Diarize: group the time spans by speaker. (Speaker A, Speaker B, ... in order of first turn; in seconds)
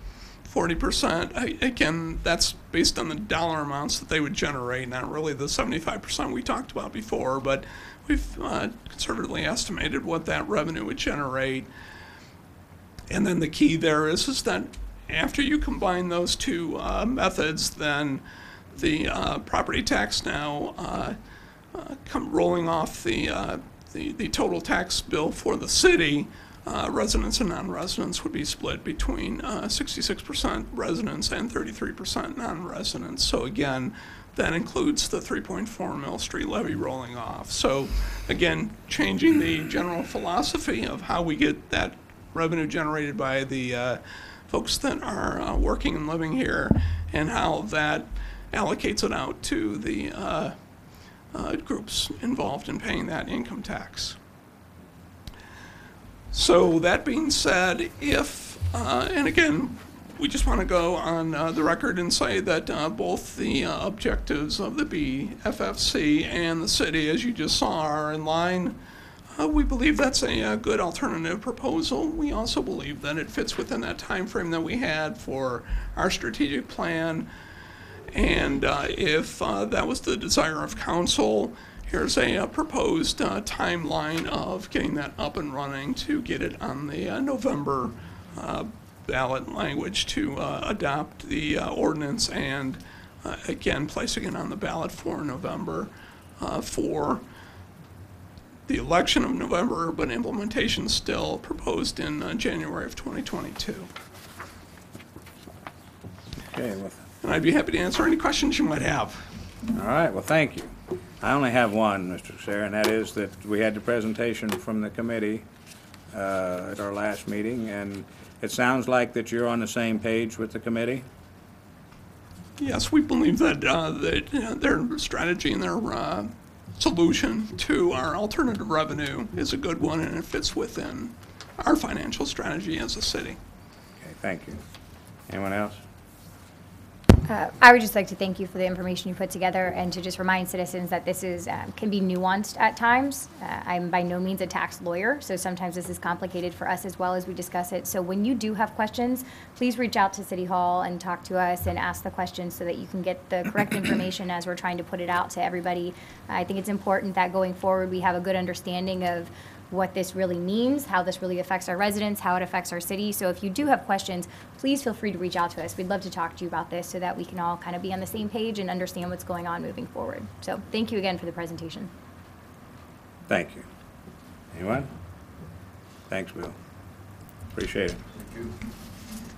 Speaker A: 0.4-11.7, 13.1-18.2, 18.8-21.2, 21.7-50.5, 51.3-54.2, 56.3-68.8, 69.4-77.3, 78.1-97.2, 98.7-103.9, 107.2-109.2, 122.6-133.4
Speaker B: 106.5-107.0, 109.7-115.5, 116.1-121.0, 134.0-134.6, 135.3-135.8, 173.3-173.7, 174.5-174.9, 176.1-176.5, 177.5-178.0
Speaker C: 137.2-171.9